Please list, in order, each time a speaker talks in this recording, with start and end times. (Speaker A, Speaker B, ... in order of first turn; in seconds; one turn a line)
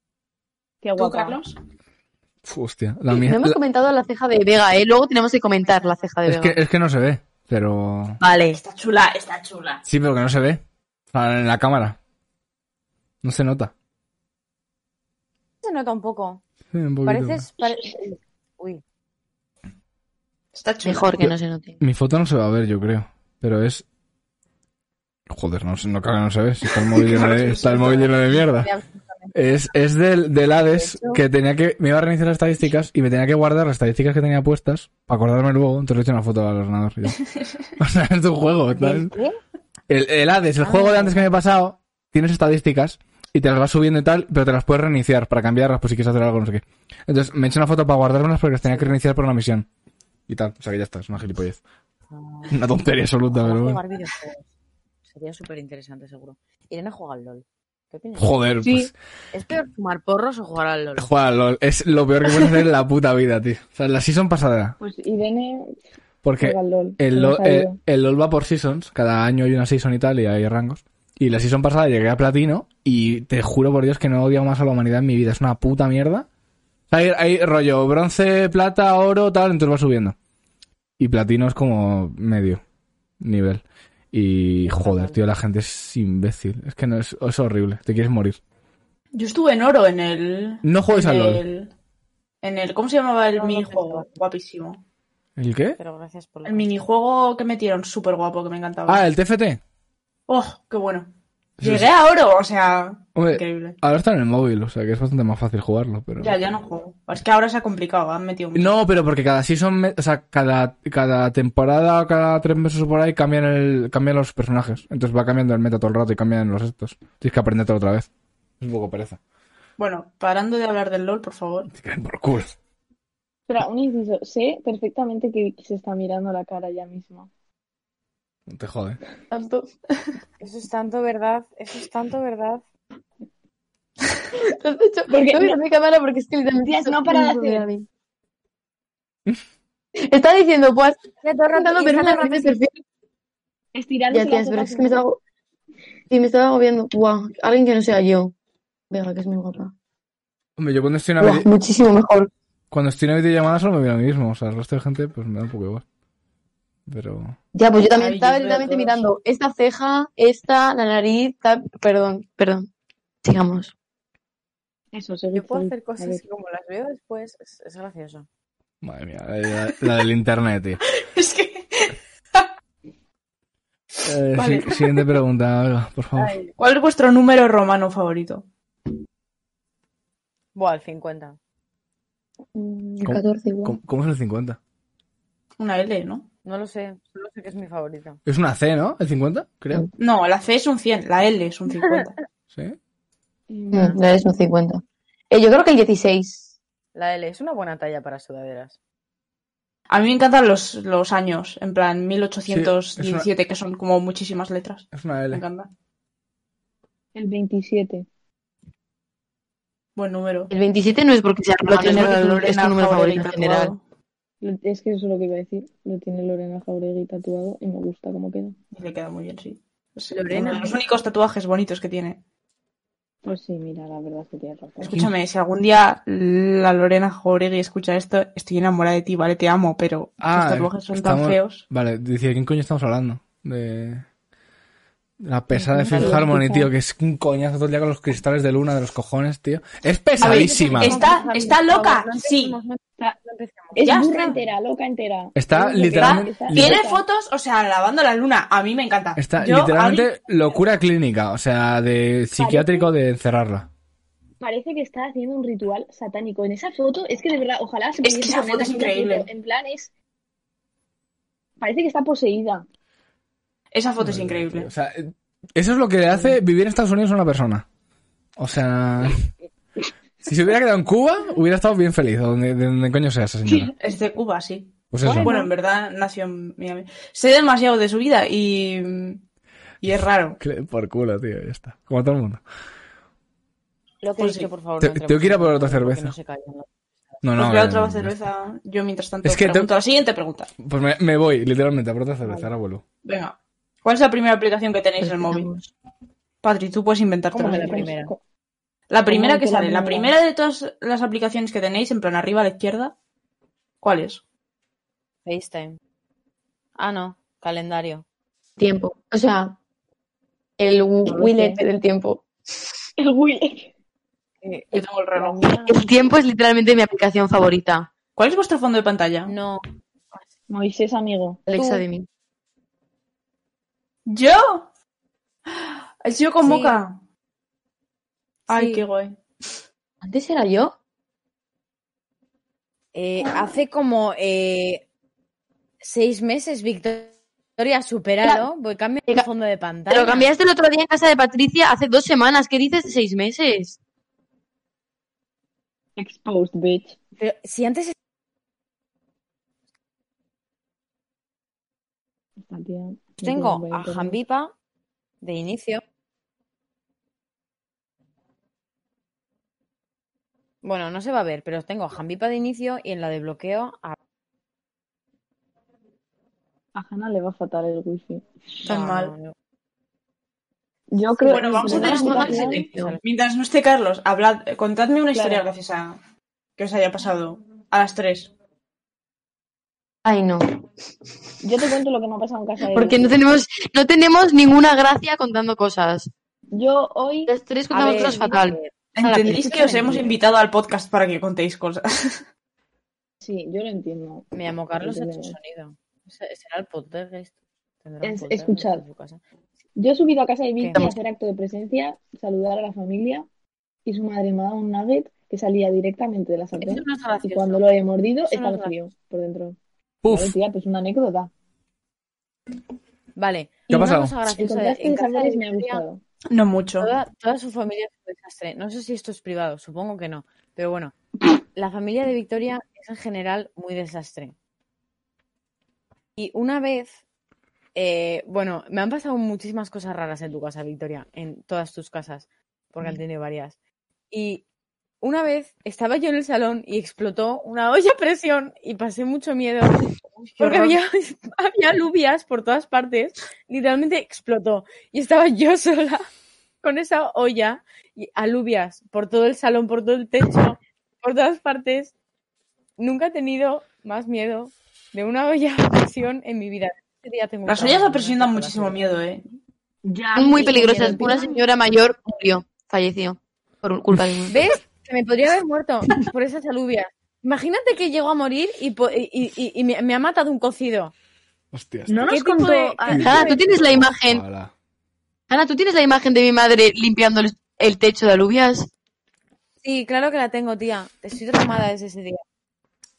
Speaker A: 0.8-1.4
Speaker B: 0.9-1.6
Speaker C: 2.5-3.6
Speaker D: 3.1-6.6
Speaker C: 6.3-8.2
Speaker D: 8.2-8.6
Speaker B: 8.5-9.8
Speaker C: 9.8-10.6
Speaker C: 11.1-12.0
Speaker C: 13.2-13.7
Speaker E: 15.6-16.4
Speaker C: 16.7-17.5
Speaker E: 17.1-18.8
Speaker B: 20.5-21.3
Speaker D: 20.8-21.8
Speaker C: 21.2-23.9
Speaker C: 25.3-28.7
Speaker B: 27.0-28.1
Speaker E: 27.5-29.6
Speaker C: 29.3-37.2
Speaker E: 30.7-31.2
Speaker B: 37.3-37.6
Speaker C: 37.8-39.1
Speaker E: 38.7-39.4
Speaker C: 39.9-49.7
Speaker E: 40.6-41.3
Speaker E: 48.7-48.9
Speaker C: 50.3-51.6
Speaker E: 52.1-52.6
Speaker C: 52.5-53.8
Speaker E: 53.3-54.4
Speaker E: 55.1-58.3
Speaker C: 58.2-58.9
Speaker A: 58.6-58.9
Speaker E: 59.3-61.1
Speaker C: 61.0-64.8
Speaker A: 64.8-65.7
Speaker C: 66.2-76.3
Speaker A: 66.4-67.8
Speaker C: 76.9-80.2
Speaker C: 81.0-82.6
Speaker C: 83.2-88.4
Speaker E: 84.7-85.2
Speaker B: 89.1-91.7
Speaker C: 90.6-91.4
Speaker B: 92.4-94.8
Speaker E: 93.4-94.1
Speaker C: 95.4-95.8
Speaker E: 95.8-96.7
Speaker B: 96.4-99.0
Speaker C: 98.9-99.6
Speaker B: 100.3-103.8
Speaker C: 101.6-101.9
Speaker C: 103.2-106.4
Speaker B: 106.2-108.7
Speaker C: 108.5-118.1
Speaker C: 118.6-119.2
Speaker B: 119.8-121.7
Speaker C: 121.7-122.5
Speaker A: 123.5-127.3
Speaker C: 128.5-129.0
Speaker D: 129.3-129.7
Speaker E: 130.4-132.6
Speaker D: 134.3-137.9
Speaker A: 135.1-135.6
Speaker A: 136.7-137.7
Speaker D: 140.0-142.8
Speaker E: 141.2-142.6
Speaker A: 143.7-145.0
Speaker D: 144.1-145.2
Speaker D: 146.1-148.3
Speaker D: 148.9-149.7
Speaker C: 150.6-151.5
Speaker D: 151.2-152.3
Speaker C: 152.7-155.8
Speaker C: 156.9-157.4
Speaker D: 157.5-162.7
Speaker B: 157.9-159.1
Speaker D: 163.2-163.7
Speaker A: 164.9-166.2
Speaker E: 165.3-168.3
Speaker C: 168.8-170.8
Speaker B: 170.9-172.5
Speaker C: 174.1-176.4
Speaker B: 174.3-175.1
Speaker E: 176.2-176.5
Speaker B: 176.6-178.4
Speaker E: 180.6-181.4
Speaker D: 182.6-183.8
Speaker C: 183.1-184.6
Speaker B: 185.6-186.3
Speaker E: 186.4-188.2
Speaker C: 188.3-189.9
Speaker B: 190.0-192.2
Speaker C: 192.5-192.8
Speaker A: 193.5-194.0
Speaker D: 193.7-196.5
Speaker E: 196.9-198.8
Speaker B: 199.9-205.7
Speaker C: 202.5-203.3
Speaker C: 204.9-205.4
Speaker A: 207.2-208.1
Speaker B: 210.0-210.5
Speaker D: 210.5-213.7
Speaker B: 211.7-213.8
Speaker A: 214.4-218.6
Speaker B: 218.7-222.2
Speaker E: 220.1-220.7
Speaker A: 220.3-220.6
Speaker A: 223.2-225.0
Speaker B: 224.8-231.6
Speaker C: 230.2-234.1
Speaker C: 235.2-241.0
Speaker A: 235.6-236.7
Speaker E: 235.9-236.2
Speaker B: 240.2-242.6
Speaker E: 240.2-244.4
Speaker A: 243.8-247.0
Speaker B: 243.8-244.3
Speaker C: 245.4-246.8
Speaker B: 245.9-250.1
Speaker C: 249.2-253.7
Speaker A: 252.4-252.9
Speaker A: 254.4-259.9
Speaker B: 258.0-259.3
Speaker A: 261.6-262.6
Speaker B: 263.7-264.7
Speaker C: 264.0-267.7
Speaker C: 268.4-269.3
Speaker C: 270.2-273.7
Speaker A: 273.5-273.7
Speaker B: 273.8-279.2
Speaker C: 274.9-275.3
Speaker A: 275.1-275.5
Speaker B: 279.8-280.4
Speaker C: 280.4-282.4
Speaker E: 284.0-286.7
Speaker B: 284.2-284.5
Speaker C: 284.8-286.1
Speaker C: 287.2-288.1
Speaker B: 287.4-290.5
Speaker C: 289.2-289.7
Speaker C: 290.6-292.8
Speaker B: 293.0-295.5
Speaker D: 295.0-295.7
Speaker B: 296.4-297.9
Speaker E: 297.4-298.1
Speaker A: 297.4-298.2
Speaker B: 298.9-302.9
Speaker A: 299.1-300.1
Speaker B: 303.8-304.2
Speaker E: 305.2-305.8
Speaker E: 306.8-308.0
Speaker D: 308.6-309.6
Speaker D: 310.6-312.2
Speaker A: 311.1-311.6
Speaker A: 313.0-313.7
Speaker E: 314.4-314.8
Speaker B: 314.7-315.7
Speaker A: 315.2-315.9
Speaker D: 315.7-317.9
Speaker B: 318.2-319.3
Speaker E: 319.3-320.2
Speaker A: 320.5-321.4
Speaker D: 321.5-322.1
Speaker E: 321.5-321.8
Speaker B: 324.1-324.7
Speaker B: 325.5-327.0
Speaker E: 326.4-326.8
Speaker B: 328.5-329.2
Speaker E: 328.5-328.8
Speaker D: 330.0-330.8
Speaker E: 332.9-334.8
Speaker E: 335.8-340.3
Speaker D: 339.9-343.8
Speaker A: 346.0-347.0
Speaker E: 347.2-347.9
Speaker A: 352.4-354.2
Speaker E: 353.2-354.5
Speaker E: 355.2-355.8
Speaker E: 360.6-364.0
Speaker A: 366.8-368.3
Speaker B: 368.6-369.1
Speaker E: 368.6-369.3
Speaker A: 370.9-372.6
Speaker B: 371.2-376.0
Speaker D: 371.6-372.9
Speaker E: 371.6-373.0
Speaker A: 375.1-375.5
Speaker B: 376.6-378.3
Speaker D: 380.1-380.5
Speaker A: 381.4-383.2
Speaker D: 382.7-386.1
Speaker A: 386.5-387.3
Speaker D: 387.3-388.6
Speaker E: 387.7-390.1
Speaker B: 388.9-392.2
Speaker A: 393.2-395.4
Speaker E: 394.3-397.3
Speaker E: 397.8-399.2
Speaker A: 398.0-398.8
Speaker A: 399.8-403.3
Speaker E: 400.6-400.9
Speaker A: 403.9-411.3
Speaker E: 406.6-407.7
Speaker E: 408.3-408.7
Speaker C: 410.0-410.4
Speaker E: 413.2-415.8
Speaker C: 413.7-414.1
Speaker A: 414.3-416.0
Speaker B: 416.3-416.9
Speaker E: 416.8-420.9
Speaker E: 421.6-424.4
Speaker E: 426.2-427.0
Speaker E: 427.8-433.6
Speaker E: 434.1-434.4
Speaker E: 435.0-446.1
Speaker E: 446.6-451.9
Speaker E: 452.8-458.8
Speaker B: 457.5-459.3
Speaker A: 459.9-461.4
Speaker D: 460.1-464.4
Speaker E: 464.3-470.9
Speaker C: 471.5-472.0
Speaker A: 471.9-473.4
Speaker E: 472.0-473.3
Speaker D: 472.9-474.2
Speaker C: 473.1-474.5
Speaker D: 475.3-478.7
Speaker E: 479.6-482.2